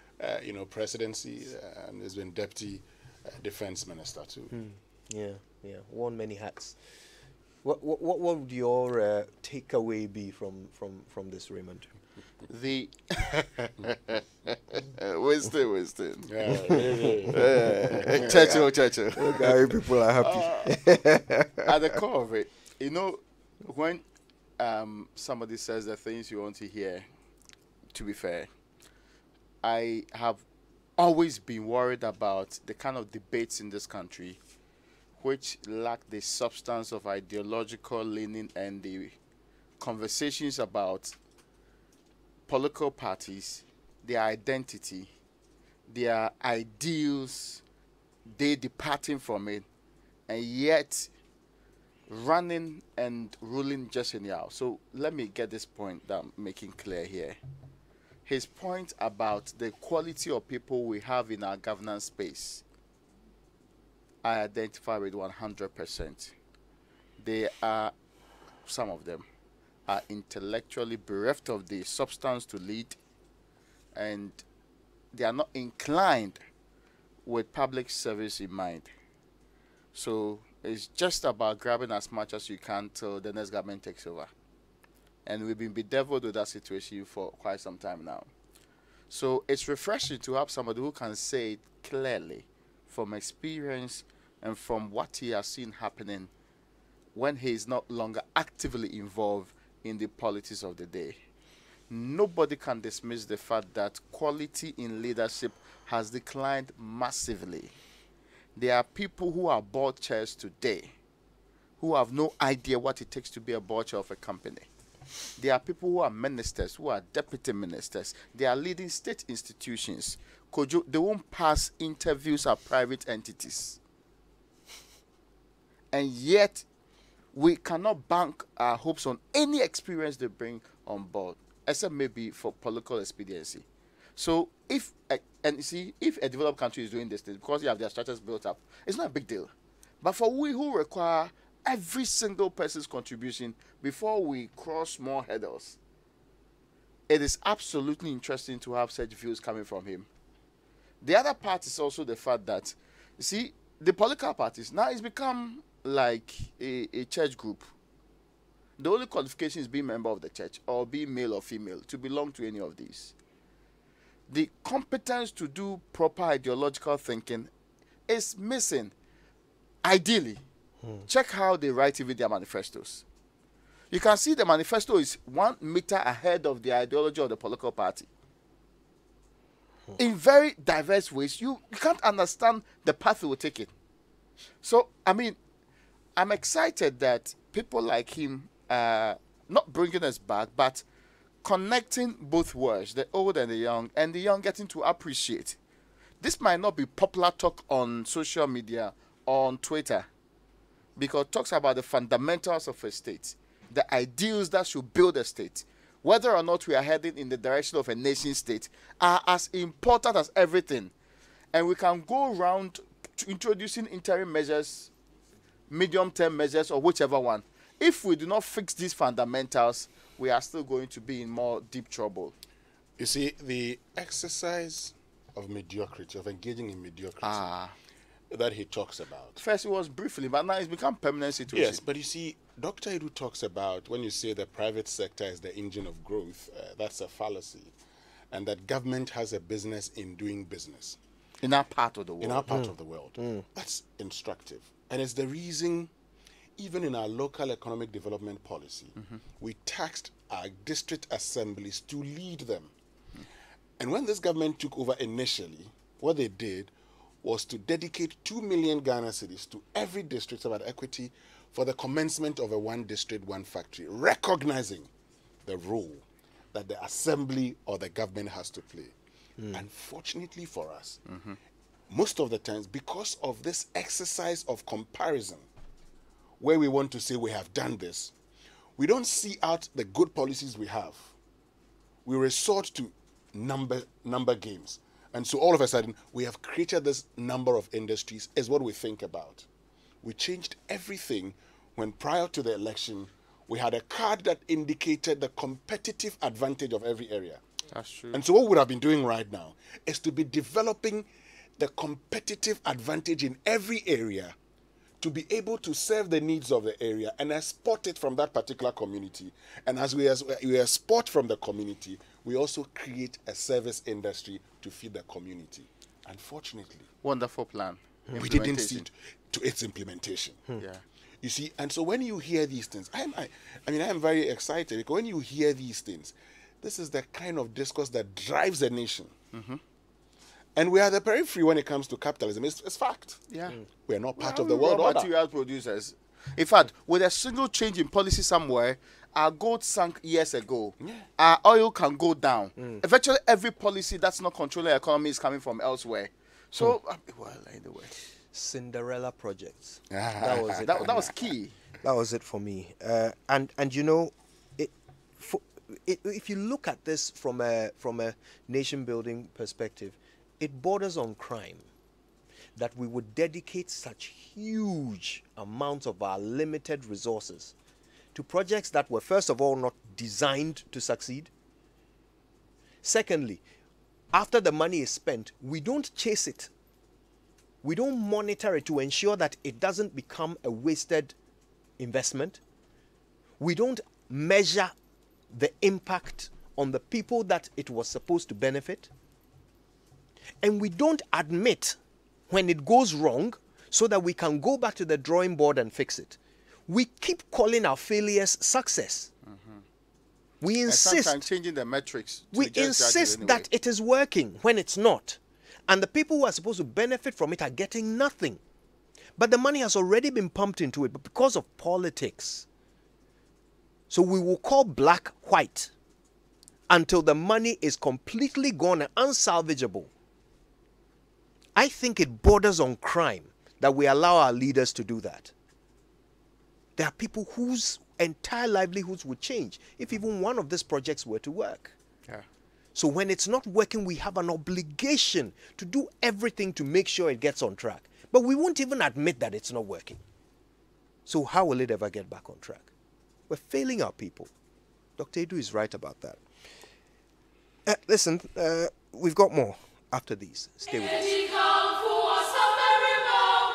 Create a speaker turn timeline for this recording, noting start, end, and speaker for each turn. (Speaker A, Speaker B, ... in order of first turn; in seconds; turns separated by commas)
Speaker A: 0.2-4.5, Speaker B: 4.5-6.8, Speaker B: 7.6-11.9, Speaker C: 12.5-13.4, Speaker C: 15.0-16.7, Speaker A: 16.2-18.7, Speaker B: 17.5-18.6, Speaker C: 18.1-19.3, Speaker B: 19.1-21.8, Speaker C: 20.2-20.8, Speaker C: 21.7-24.0, Speaker C: 24.6-27.1, Speaker C: 27.9-28.5, Speaker C: 29.6-30.4, Speaker C: 31.0-34.4, Speaker C: 35.2-39.2, Speaker C: 39.8-41.1, Speaker C: 42.5-45.1, Speaker C: 45.9-47.6, Speaker C: 48.3-49.6, Speaker C: 50.3-51.1, Speaker C: 52.1-57.4, Speaker C: 58.2-62.6, Speaker C: 64.2-66.3, Speaker C: 67.2-67.9, Speaker C: 68.7-69.2, Speaker C: 69.9-73.0, Speaker C: 74.0-74.4, Speaker C: 75.1-76.4, Speaker C: 77.2-78.9, Speaker C: 79.9-84.3, Speaker C: 85.2-88.3, Speaker C: 89.1-96.3, Speaker C: 97.1-101.2, Speaker C: 101.9-107.7, Speaker C: 108.5-110.9, Speaker C: 111.8-114.7, Speaker C: 115.4-123.8, Speaker C: 125.9-126.6, Speaker C: 127.3-133.6, Speaker C: 134.2-145.8, Speaker C: 147.1-150.1, Speaker C: 151.0-157.7, Speaker C: 158.8-163.1, Speaker C: 164.3-167.5, Speaker C: 168.1-168.9, Speaker C: 169.8-170.4, Speaker C: 171.1-173.0, Speaker C: 173.9-178.1, Speaker C: 180.0-183.7, Speaker C: 184.6-185.4, Speaker C: 186.2-190.8, Speaker C: 191.4-195.6, Speaker C: 196.2-200.1, Speaker C: 201.0-210.9, Speaker C: 211.5-214.9, Speaker C: 215.7-222.3, Speaker A: 223.0-227.5, Speaker C: 227.2-227.7, Speaker A: 228.3-229.4, Speaker C: 229.3-231.8, Speaker A: 231.5-237.7, Speaker A: 238.3-241.0, Speaker C: 241.4-242.5, Speaker A: 242.2-245.9, Speaker A: 246.6-252.7, Speaker A: 253.8-256.7, Speaker A: 257.2-264.9, Speaker A: 265.4-268.9, Speaker A: 269.5-271.0, Speaker C: 271.1-271.4, Speaker A: 271.9-275.4, Speaker A: 276.4-278.1, Speaker A: 278.8-281.1, Speaker A: 282.0-289.4, Speaker A: 290.0-297.4, Speaker C: 297.7-298.2, Speaker A: 298.1-301.1, Speaker A: 301.6-304.3, Speaker A: 305.0-316.9, Speaker C: 317.0-318.9, Speaker A: 318.1-320.4, Speaker C: 320.6-320.8, Speaker A: 321.2-329.1, Speaker C: 329.3-329.6, Speaker A: 330.6-333.2, Speaker C: 333.3-333.6, Speaker A: 333.9-335.1, Speaker C: 334.2-347.9, Speaker A: 340.8-341.1, Speaker B: 348.3-351.2, Speaker A: 349.9-350.9, Speaker C: 350.6-351.5, Speaker B: 351.8-361.7, Speaker B: 362.6-367.5, Speaker B: 368.1-371.3, Speaker B: 372.8-373.4, Speaker B: 374.1-376.5, Speaker B: 377.6-381.1, Speaker B: 381.8-382.4, Speaker B: 383.4-384.7, Speaker B: 385.3-388.9, Speaker B: 390.4-391.8, Speaker B: 392.3-399.1, Speaker C: 399.2-399.6, Speaker B: 400.4-401.2, Speaker C: 400.7-403.4, Speaker B: 402.3-408.4, Speaker B: 409.1-412.4, Speaker B: 413.9-415.7, Speaker B: 416.7-419.9, Speaker B: 421.5-425.3, Speaker B: 426.8-431.7, Speaker B: 432.7-440.0, Speaker B: 441.1-442.7, Speaker B: 443.3-444.3, Speaker B: 445.0-446.2, Speaker B: 447.6-452.0